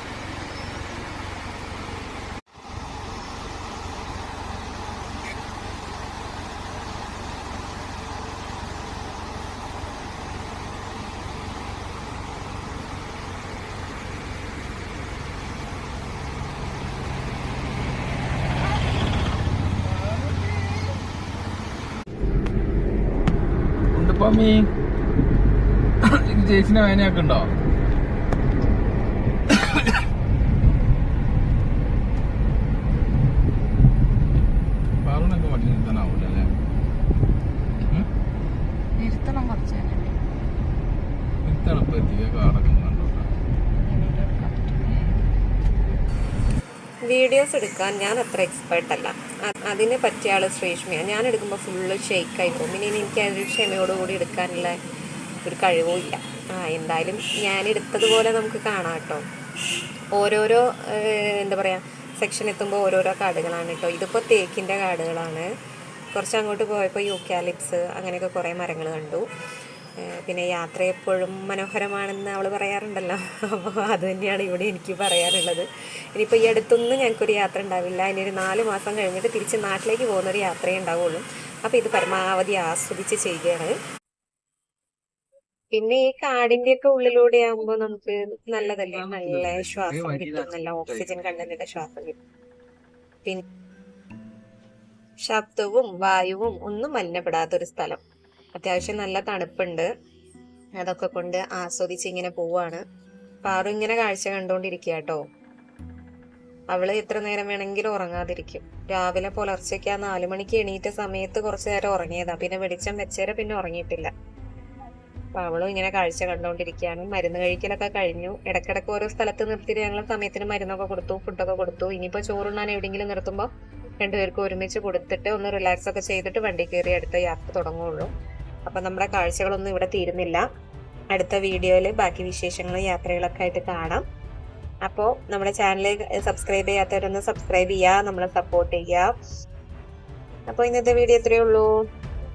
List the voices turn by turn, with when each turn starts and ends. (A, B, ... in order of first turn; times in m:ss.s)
0:23.9-0:24.7 A
0:26.1-0:27.5 A
0:29.5-0:30.0 A
0:35.0-0:36.5 A
0:39.0-0:39.8 B
0:41.5-0:43.3 A
0:43.8-0:45.0 B
0:47.0-0:54.8 C
0:55.4-0:59.2 C
1:00.2-1:05.5 C
1:06.1-1:09.2 C
1:10.0-1:23.8 C
1:25.7-1:32.2 C
1:28.9-1:31.5 A
1:35.2-1:38.0 C
1:38.6-1:39.9 C
1:40.8-1:42.8 C
1:43.4-1:45.2 C
1:46.7-1:54.1 C
1:55.4-2:03.5 C
2:04.0-2:08.1 C
2:08.7-2:10.4 C
2:11.1-2:14.0 C
2:14.8-2:19.1 C
2:20.5-2:21.7 C